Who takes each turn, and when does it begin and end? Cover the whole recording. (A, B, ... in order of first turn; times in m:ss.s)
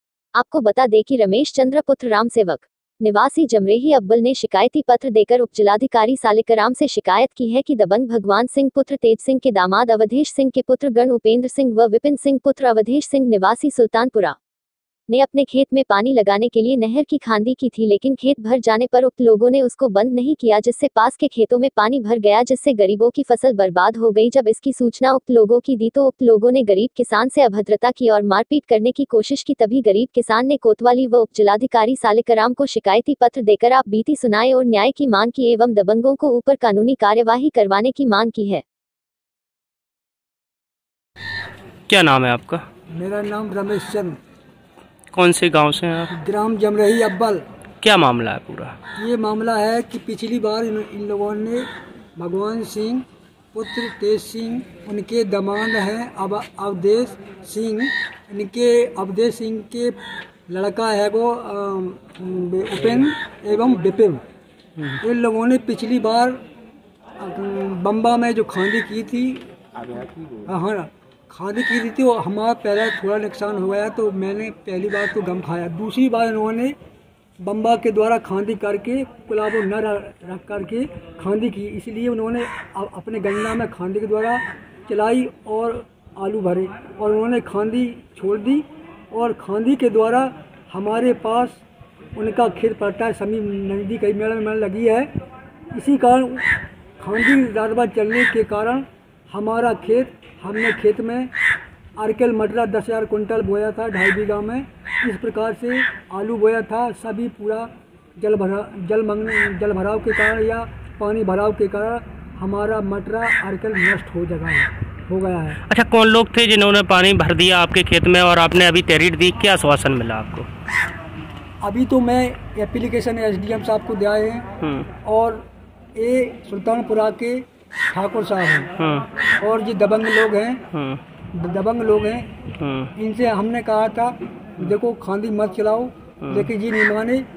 0:00.4-0:14.4 A
0:15.1-0:38.6 A
0:41.9-0:42.6 B
0:42.9-0:44.2 C
0:45.1-0:46.1 B
0:46.1-0:47.4 C
0:47.8-0:48.7 B
0:49.0-1:04.2 C
1:05.0-1:06.4 C
1:07.2-1:09.4 C
1:10.4-1:16.7 C
1:17.4-1:31.6 C
1:32.2-1:35.1 C
1:35.7-1:36.5 C
1:37.0-1:41.3 C
1:42.0-1:55.6 C
1:55.7-2:00.5 B
2:01.6-2:05.4 C
2:04.6-2:04.9 B
2:06.0-2:08.7 C
2:08.8-2:09.1 B
2:09.4-2:10.6 C
2:10.7-2:11.0 B
2:11.3-2:12.3 C
2:12.6-2:12.9 B
2:13.0-2:17.2 C
2:16.2-2:16.5 B